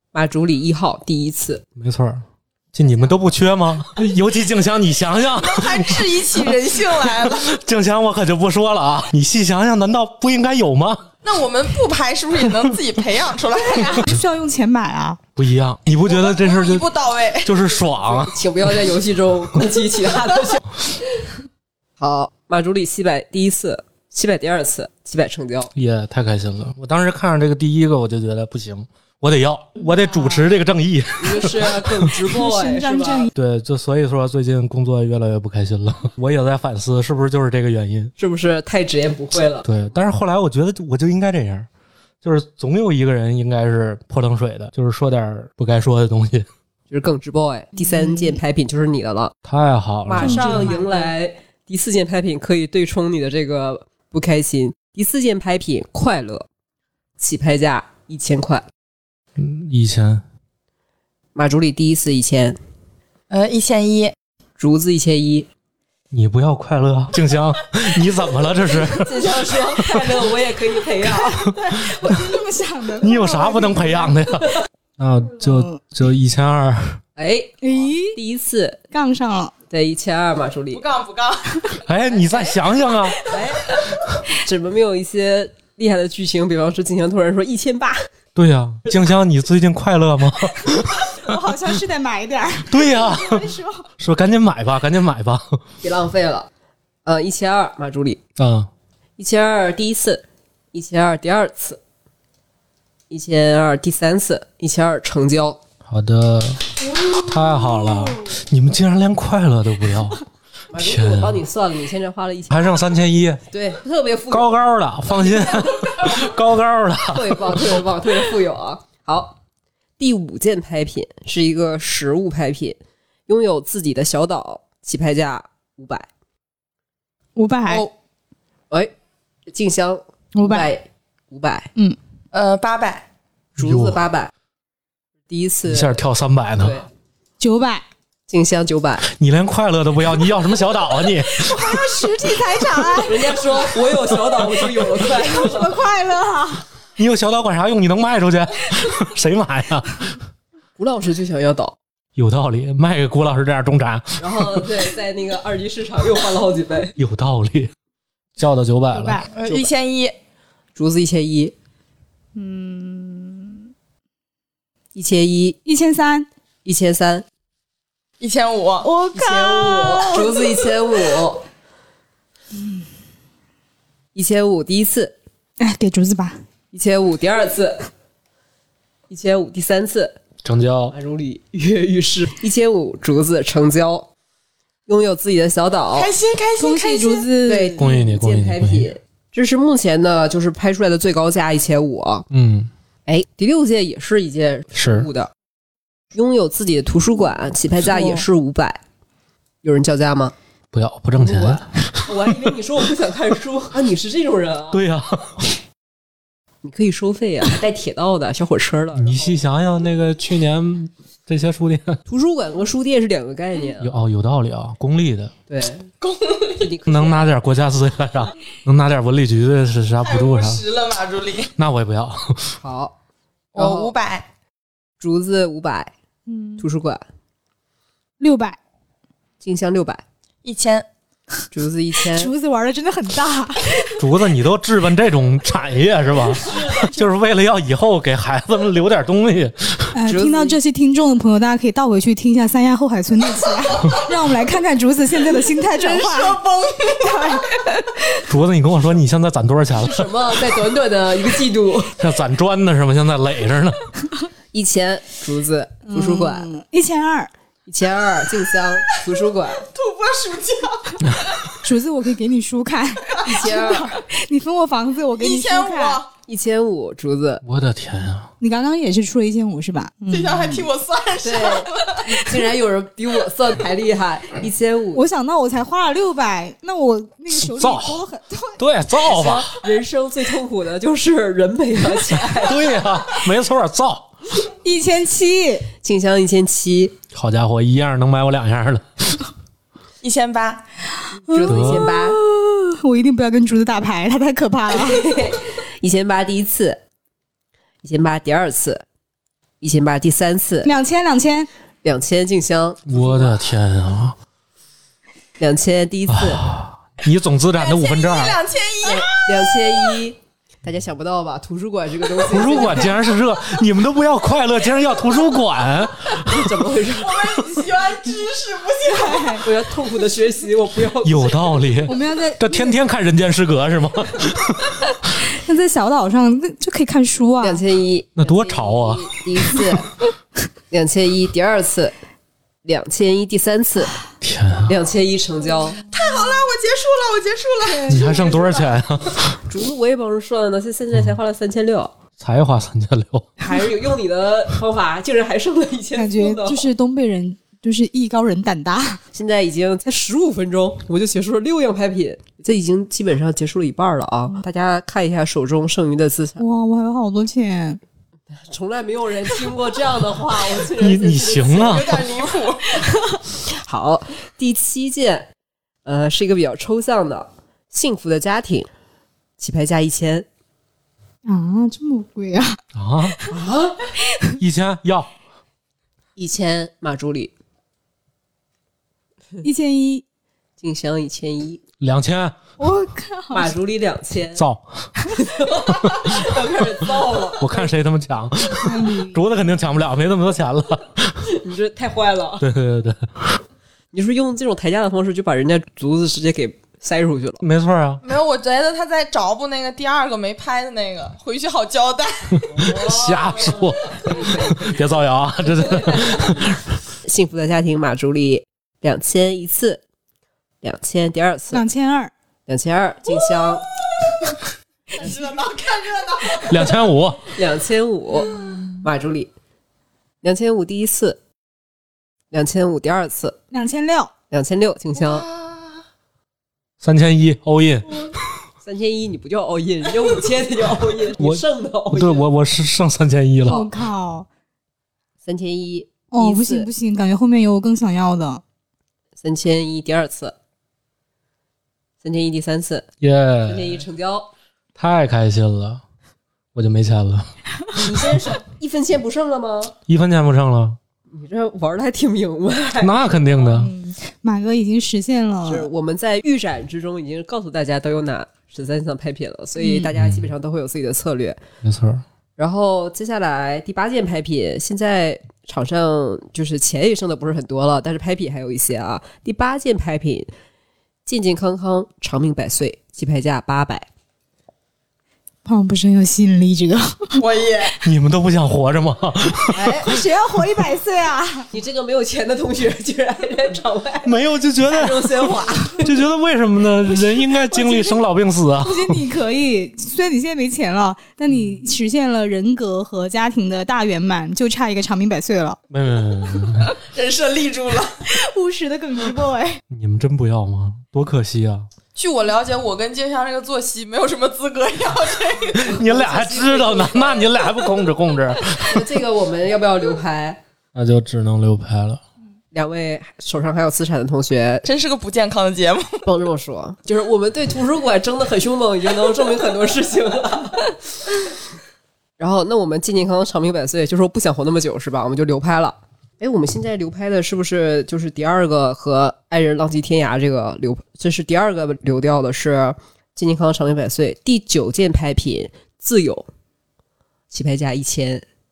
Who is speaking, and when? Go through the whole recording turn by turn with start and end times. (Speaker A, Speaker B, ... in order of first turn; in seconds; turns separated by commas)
Speaker A: 0.1-1.6, Speaker B: 1.8-6.2, Speaker C: 5.3-7.5, Speaker B: 7.1-11.1, Speaker C: 11.2-14.1, Speaker D: 13.8-15.2, Speaker B: 15.3-16.9, Speaker C: 16.0-17.7, Speaker B: 17.4-18.4, Speaker A: 18.2-20.6, Speaker A: 22.0-25.7, Speaker B: 25.7-32.2, Speaker A: 31.2-33.3, Speaker D: 32.3-33.3, Speaker B: 33.3-38.1, Speaker A: 38.2-39.7, Speaker B: 39.6-41.7, Speaker B: 42.2-46.5, Speaker A: 46.9-49.4, Speaker B: 49.4-50.7, Speaker A: 50.1-56.5, Speaker D: 50.2-51.1, Speaker A: 57.2-58.6, Speaker B: 59.4-60.2, Speaker A: 61.3-62.6, Speaker C: 63.3-64.1, Speaker A: 64.6-65.5, Speaker B: 66.1-70.3, Speaker A: 68.8-71.5, Speaker B: 71.0-72.2, Speaker D: 71.4-74.2, Speaker B: 73.0-77.0, Speaker D: 75.4-75.8, Speaker A: 77.2-78.8, Speaker D: 77.6-78.2, Speaker D: 78.9-79.5, Speaker A: 79.7-80.8, Speaker C: 80.7-81.7, Speaker B: 81.8-83.2, Speaker C: 83.2-83.8, Speaker A: 83.3-83.7, Speaker A: 84.3-88.0, Speaker B: 88.3-91.1, Speaker D: 91.1-93.9, Speaker B: 92.7-95.6, Speaker A: 95.8-96.5, Speaker A: 97.0-98.2, Speaker B: 98.4-98.7, Speaker A: 99.2-101.8, Speaker A: 103.1-105.6, Speaker B: 105.8-110.2, Speaker A: 110.7-112.6, Speaker B: 110.7-111.4, Speaker B: 112.5-113.4, Speaker A: 113.5-114.6, Speaker B: 114.3-118.0, Speaker A: 115.3-116.1, Speaker A: 117.1-119.4, Speaker A: 120.0-126.1, Speaker D: 127.3-127.9, Speaker A: 129.5-131.7, Speaker D: 130.3-130.7, Speaker C: 132.3-133.1, Speaker B: 133.6-134.0, Speaker A: 133.6-134.3, Speaker A: 135.3-135.9, Speaker B: 135.7-136.8, Speaker A: 136.6-136.9, Speaker D: 137.4-137.8, Speaker A: 138.3-139.0, Speaker B: 139.0-141.9, Speaker D: 141.3-143.4, Speaker A: 143.0-145.8, Speaker B: 143.9-144.9, Speaker D: 145.1-146.6, Speaker B: 147.0-150.2, Speaker A: 150.8-151.8, Speaker B: 152.2-154.8, Speaker A: 154.2-156.9, Speaker B: 157.0-157.7, Speaker B: 158.4-159.2, Speaker D: 158.9-159.3, Speaker C: 159.3-160.1, Speaker A: 159.4-159.7, Speaker A: 160.7-161.5, Speaker D: 162.3-163.6, Speaker A: 164.9-165.6, Speaker D: 165.6-166.3, Speaker A: 166.6-167.2, Speaker C: 168.2-168.9, Speaker D: 168.8-170.5, Speaker A: 169.1-171.4, Speaker A: 174.1-175.2, Speaker D: 175.6-176.4, Speaker A: 176.7-177.9, Speaker A: 179.1-180.2, Speaker B: 180.4-180.9, Speaker A: 180.9-184.1, Speaker A: 184.9-186.1, Speaker C: 185.9-187.3, Speaker D: 186.6-187.9, Speaker A: 187.4-192.3, Speaker B: 187.8-188.9, Speaker B: 192.3-192.7, Speaker A: 193.1-195.3, Speaker B: 194.8-195.1, Speaker A: 196.1-198.8, Speaker D: 197.9-198.2, Speaker A: 199.6-200.3, Speaker B: 200.7-202.5, Speaker A: 201.2-204.8, Speaker B: 204.7-205.6, Speaker A: 206.6-209.4, Speaker B: 208.9-212.0, Speaker A: 212.1-213.9, Speaker B: 213.8-215.3, Speaker A: 215.5-215.9, Speaker C: 216.0-216.7, Speaker A: 216.6-217.3, Speaker B: 216.9-220.6, Speaker C: 220.0-221.5, Speaker B: 221.6-222.6, Speaker A: 222.6-222.9, Speaker C: 223.5-224.3, Speaker A: 223.6-223.9, Speaker A: 225.0-225.9, Speaker D: 226.3-226.7, Speaker A: 226.6-227.0, Speaker D: 228.2-228.6, Speaker A: 229.4-230.0, Speaker C: 230.4-230.9, Speaker A: 231.5-232.3, Speaker D: 232.1-234.0, Speaker B: 234.0-239.9, Speaker A: 236.4-236.9, Speaker D: 239.9-248.2, Speaker A: 240.1-240.6, Speaker C: 245.6-247.4, Speaker B: 248.2-250.1, Speaker A: 249.8-251.9, Speaker B: 252.0-253.9, Speaker A: 254.5-256.5, Speaker D: 255.8-257.3, Speaker A: 257.7-259.7, Speaker C: 259.7-261.4, Speaker B: 261.0-261.3, Speaker D: 261.6-266.0, Speaker A: 263.2-264.0, Speaker C: 265.2-266.1, Speaker A: 266.2-267.4, Speaker B: 267.4-268.3, Speaker D: 268.4-270.7, Speaker C: 270.1-272.1, Speaker A: 271.2-275.0, Speaker D: 274.9-278.6, Speaker B: 277.4-278.0, Speaker B: 278.6-279.5, Speaker A: 279.0-282.7, Speaker B: 282.3-284.1, Speaker D: 284.6-285.7, Speaker A: 285.8-286.9, Speaker B: 287.1-289.1, Speaker C: 290.0-290.6, Speaker D: 291.3-295.1, Speaker A: 291.3-292.2, Speaker B: 291.5-291.9, Speaker A: 294.7-296.8, Speaker A: 297.8-298.8, Speaker A: 299.6-300.7, Speaker D: 300.6-301.5, Speaker A: 301.8-303.4, Speaker B: 302.9-304.1, Speaker A: 305.4-306.5, Speaker B: 306.1-308.4, Speaker C: 307.6-310.0, Speaker A: 308.8-313.0, Speaker B: 312.2-316.8, Speaker A: 316.2-317.2, Speaker C: 316.9-319.4, Speaker D: 318.8-319.4, Speaker A: 319.4-321.7, Speaker B: 321.0-324.8, Speaker D: 321.9-322.8, Speaker D: 325.2-327.6, Speaker A: 327.4-329.9, Speaker B: 328.2-329.2, Speaker A: 330.7-331.9, Speaker A: 332.6-333.9, Speaker B: 334.2-334.7, Speaker A: 334.6-335.8, Speaker C: 335.9-338.5, Speaker D: 337.6-338.6, Speaker B: 337.9-339.4, Speaker A: 339.5-341.9, Speaker B: 342.2-343.3, Speaker A: 343.4-346.7, Speaker D: 345.9-349.0, Speaker A: 349.1-356.4, Speaker D: 356.4-357.8, Speaker A: 358.3-362.2, Speaker B: 360.7-362.1, Speaker C: 361.4-362.8, Speaker A: 363.4-365.3, Speaker A: 365.8-368.7, Speaker A: 369.4-370.3, Speaker D: 371.2-372.6, Speaker B: 372.7-373.2, Speaker A: 373.3-373.8, Speaker B: 374.4-375.1, Speaker A: 376.1-377.3, Speaker D: 379.4-380.0, Speaker A: 380.6-381.6, Speaker B: 381.8-382.3, Speaker D: 382.6-383.5, Speaker A: 383.3-384.4, Speaker B: 384.4-384.9, Speaker A: 385.1-387.7, Speaker B: 385.7-386.4, Speaker B: 387.4-391.4, Speaker D: 388.6-389.2, Speaker A: 391.3-392.4, Speaker B: 392.4-393.4, Speaker A: 393.9-397.4, Speaker B: 397.4-398.0, Speaker C: 398.0-402.7, Speaker B: 402.4-406.7, Speaker A: 402.6-404.7, Speaker A: 405.5-406.4, Speaker A: 407.0-409.8, Speaker A: 410.6-411.6, Speaker D: 411.5-412.1, Speaker A: 412.5-413.7, Speaker C: 414.9-416.8, Speaker B: 416.4-417.3, Speaker A: 417.3-419.3, Speaker A: 420.2-421.2, Speaker A: 422.3-423.4, Speaker D: 423.5-424.1, Speaker A: 424.3-425.3, Speaker C: 424.9-425.7, Speaker B: 426.8-428.2, Speaker A: 428.6-432.3, Speaker B: 431.2-433.6, Speaker D: 433.4-434.3, Speaker A: 435.2-436.7, Speaker D: 436.1-438.4, Speaker A: 439.2-440.3, Speaker A: 442.0-442.9, Speaker B: 443.0-443.8, Speaker A: 443.4-444.3, Speaker B: 444.8-445.8, Speaker B: 446.5-447.3, Speaker A: 447.7-449.8, Speaker B: 449.9-450.8, Speaker A: 451.1-453.5, Speaker B: 452.8-453.7, Speaker D: 453.5-455.7, Speaker A: 455.4-461.4, Speaker D: 459.6-459.9, Speaker B: 459.9-460.3, Speaker B: 461.6-462.0, Speaker A: 462.4-470.3, Speaker A: 471.1-473.9, Speaker D: 475.4-477.2, Speaker C: 477.2-477.7, Speaker B: 477.8-479.9, Speaker A: 479.5-480.0, Speaker D: 479.8-481.5, Speaker A: 481.5-486.0, Speaker B: 484.0-489.0, Speaker D: 487.5-487.9, Speaker D: 488.6-495.6, Speaker B: 495.7-496.7, Speaker C: 496.7-498.1, Speaker D: 498.1-499.6, Speaker B: 499.7-501.7, Speaker C: 501.9-507.6, Speaker B: 505.5-508.9, Speaker A: 505.8-507.1, Speaker A: 508.6-510.4, Speaker B: 510.7-512.0, Speaker A: 512.5-514.6, Speaker C: 514.6-516.1, Speaker A: 516.0-520.8, Speaker A: 522.2-536.3, Speaker A: 537.3-538.2